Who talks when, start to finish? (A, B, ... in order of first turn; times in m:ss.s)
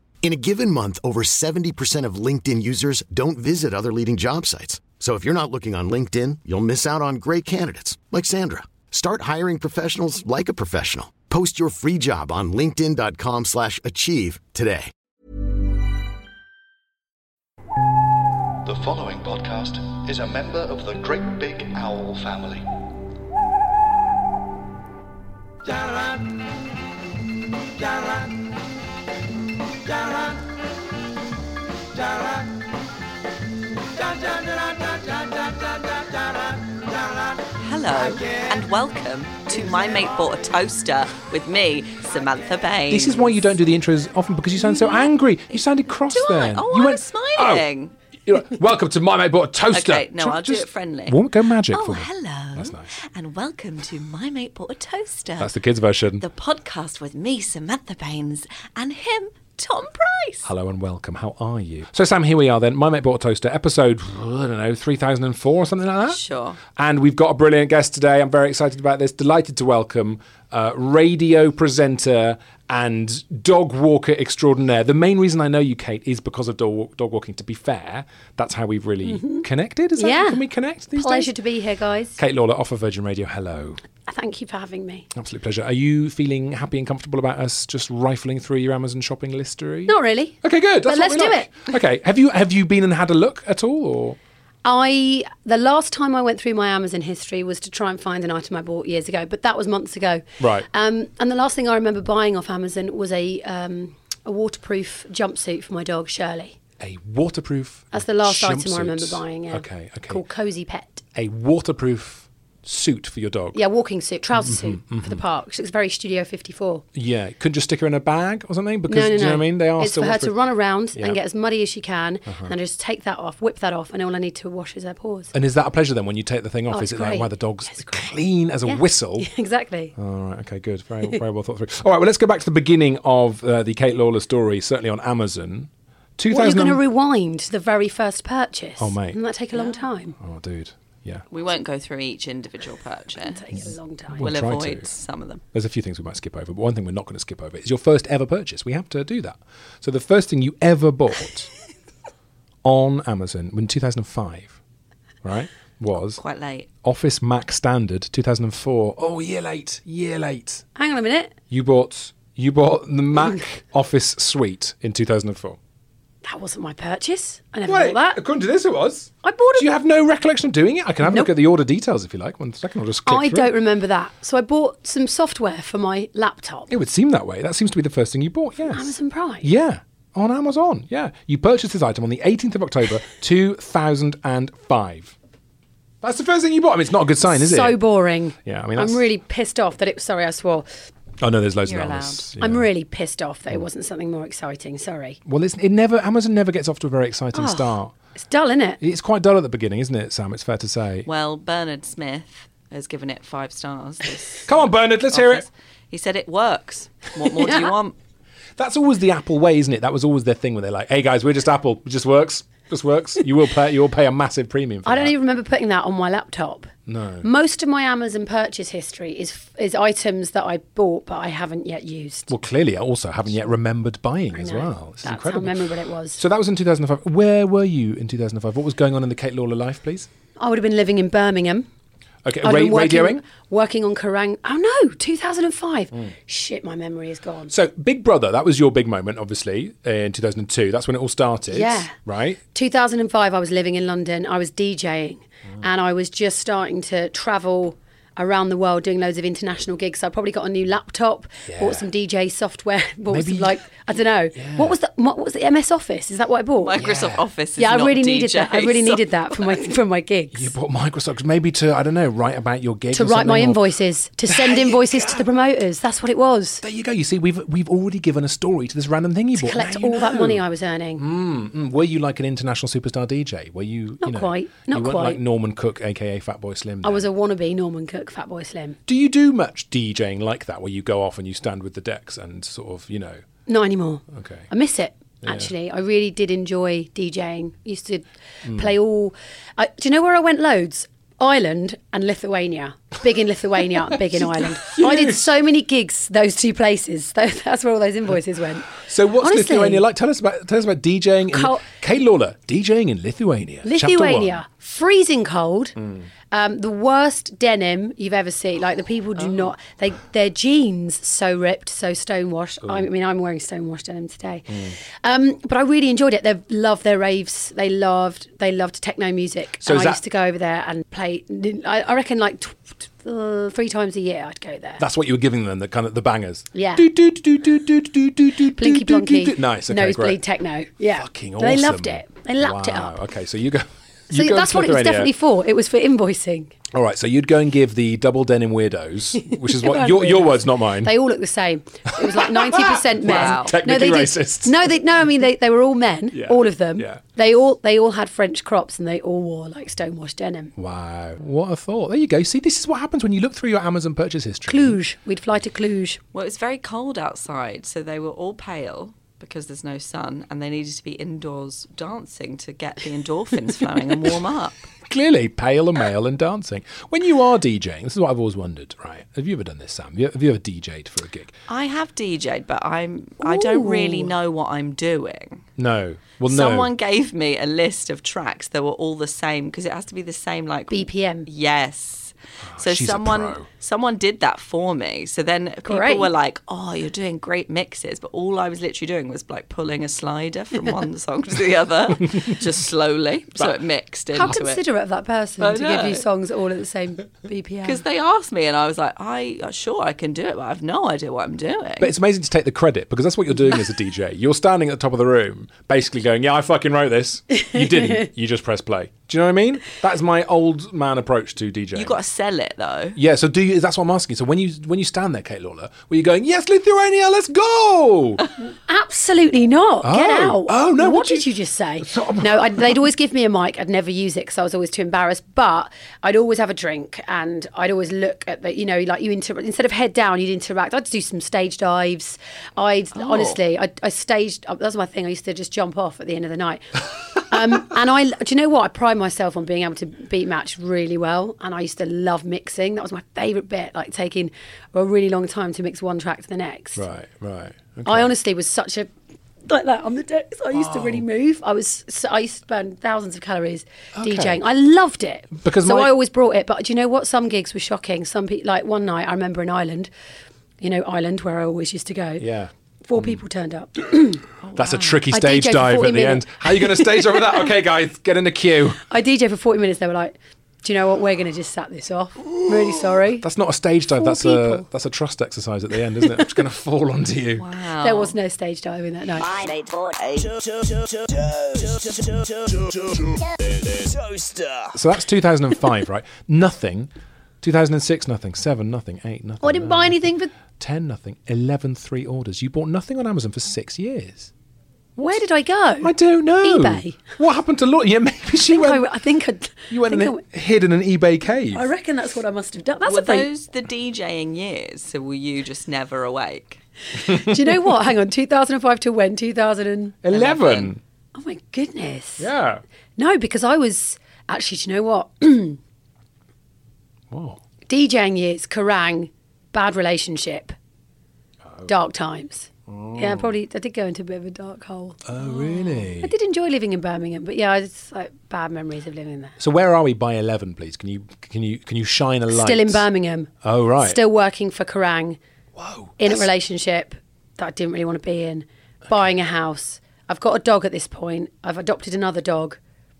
0:00.2-0:14.9 A
0:18.6-0:22.6 B
0:37.6-0:43.4 C
0:42.9-0:47.6 D
0:44.7-0:45.6 C
0:46.1-0:47.9 C
0:48.2-0:52.9 D
0:49.7-0:55.5 C
0:55.4-0:56.2 D
0:56.2-1:00.5 C
1:00.4-1:06.2 D
1:06.1-1:06.6 C
1:06.7-1:21.3 D
1:19.0-1:20.4 E
1:20.9-1:22.2 E
1:22.2-1:23.8 D
1:24.0-1:25.1 E
1:25.1-1:34.2 D
1:29.9-1:31.5 E
1:34.6-1:46.6 E
1:40.4-1:40.7 D
1:46.8-1:50.2 D
1:47.9-1:51.0 E
1:51.1-1:53.6 D
1:53.5-1:56.8 E
1:54.4-1:55.2 D
1:56.9-2:00.3 D
1:58.9-2:05.3 E
2:02.3-2:02.5 D
2:05.3-2:09.3 D
2:06.7-2:08.1 E
2:08.6-2:09.9 E
2:10.0-2:16.8 D
2:16.3-2:20.2 E
2:18.8-2:19.2 D
2:19.5-2:19.8 C
2:20.2-2:21.2 D
2:21.3-2:23.4 C
2:23.2-2:24.3 E
2:24.1-2:24.9 D
2:24.2-2:25.4 C
2:25.5-2:31.5 D
2:32.6-2:34.6 D
2:35.2-2:36.2 D
2:36.1-2:36.7 C
2:36.8-2:40.6 D
2:40.7-2:41.3 E
2:41.5-2:45.6 D
2:46.2-2:48.2 E
2:47.6-2:53.5 D
2:49.2-2:49.7 E
2:51.0-2:51.3 E
2:53.0-2:56.7 E
2:56.7-3:05.1 D
2:58.7-2:59.5 E
3:06.0-3:07.8 D
3:07.3-3:10.6 E
3:08.4-3:09.0 D
3:11.2-3:12.7 D
3:11.6-3:12.3 C
3:12.4-3:15.2 E
3:15.2-3:17.9 D
3:17.3-3:18.8 E
3:18.8-3:21.1 D
3:21.0-3:27.9 C
3:24.4-3:25.4 D
3:27.4-3:27.7 E
3:28.6-3:35.1 D
3:34.8-3:36.7 E
3:36.8-3:37.2 D
3:37.2-3:42.3 E
3:42.3-3:50.1 D
3:44.3-3:46.2 E
3:50.4-3:51.6 E
3:52.2-3:53.2 D
3:52.4-3:57.5 E
3:57.5-4:02.4 D
4:01.5-4:01.9 E
4:02.5-4:16.8 E
4:11.5-4:11.9 D
4:13.1-4:13.6 D
4:14.3-4:14.7 D
4:16.6-4:19.0 C
4:16.8-4:17.2 D
4:17.6-4:20.5 E
4:20.3-4:23.6 D
4:22.9-4:26.6 E
4:24.3-4:25.2 D
4:26.6-4:30.4 D
4:29.4-4:31.0 E
4:31.0-4:37.1 D
4:34.0-4:35.2 E
4:36.8-4:38.8 E
4:38.9-4:43.2 D
4:43.5-4:59.8 E
4:44.1-4:44.4 D
4:45.2-4:45.5 D
4:48.4-4:48.7 D
4:53.8-4:55.3 D
4:58.7-5:04.4 D
5:01.3-5:01.6 E
5:03.6-5:05.8 E
5:05.8-5:06.1 D
5:06.3-5:24.8 E
5:14.5-5:14.8 D
5:19.6-5:20.0 D
5:24.8-5:30.2 D
5:26.5-5:26.9 E
5:28.6-5:33.0 E
5:30.9-5:35.1 D
5:34.1-5:36.5 E
5:36.7-5:40.9 D
5:39.2-5:50.5 E
5:41.9-5:44.7 D
5:43.0-5:43.5 C
5:46.1-5:47.0 D
5:50.6-5:54.8 D
5:54.5-5:56.0 E
5:56.1-6:04.7 C
6:04.9-6:11.3 D
6:11.5-6:15.4 C
6:13.2-6:14.1 E
6:15.6-6:16.7 D
6:16.3-6:34.6 C
6:20.7-6:21.3 E
6:22.4-6:23.4 D
6:25.6-6:26.1 E
6:34.1-6:37.8 E
6:35.4-6:36.0 C
6:37.6-6:41.9 C
6:41.8-6:52.0 D
6:51.7-6:53.0 C
6:53.0-6:58.2 D
6:58.6-7:26.8 E
6:59.8-7:01.3 D
7:01.8-7:02.8 D
7:13.0-7:13.4 C
7:26.8-7:28.1 D
7:27.8-7:28.9 E
7:29.5-7:39.9 E
7:30.5-7:31.0 D
7:34.0-7:34.4 D
7:35.4-7:35.9 D
7:40.6-7:42.2 E
7:42.2-7:43.2 D
7:42.8-7:44.2 E
7:44.4-7:45.0 C
7:44.5-7:48.8 D
7:45.1-7:47.5 E
7:48.9-7:53.2 E
7:52.3-7:57.4 D
7:54.0-7:54.6 E
7:57.4-7:58.1 C
7:57.8-7:59.3 E
7:59.2-8:04.8 F
8:04.7-8:06.9 D
8:07.4-8:10.0 D
8:09.4-8:10.3 E
8:10.6-8:14.3 D
8:15.0-8:17.0 E
8:15.8-8:18.9 D
8:18.5-8:20.2 E
8:19.7-8:21.7 D
8:21.5-8:23.3 E
8:22.8-8:26.6 C
8:27.0-8:30.0 E
8:27.1-8:27.6 D
8:30.0-8:30.8 D
8:30.1-8:30.7 C
8:31.1-8:32.3 E
8:32.2-8:32.6 D
8:33.0-8:35.6 E
8:37.1-8:37.4 D
8:37.7-8:40.5 E
8:41.6-8:49.4 E
8:42.7-8:43.3 D
8:45.0-8:46.1 D
8:49.4-8:52.8 D
8:52.3-8:55.2 E
8:53.4-8:54.0 D
8:55.6-8:56.3 D
8:56.0-9:02.6 E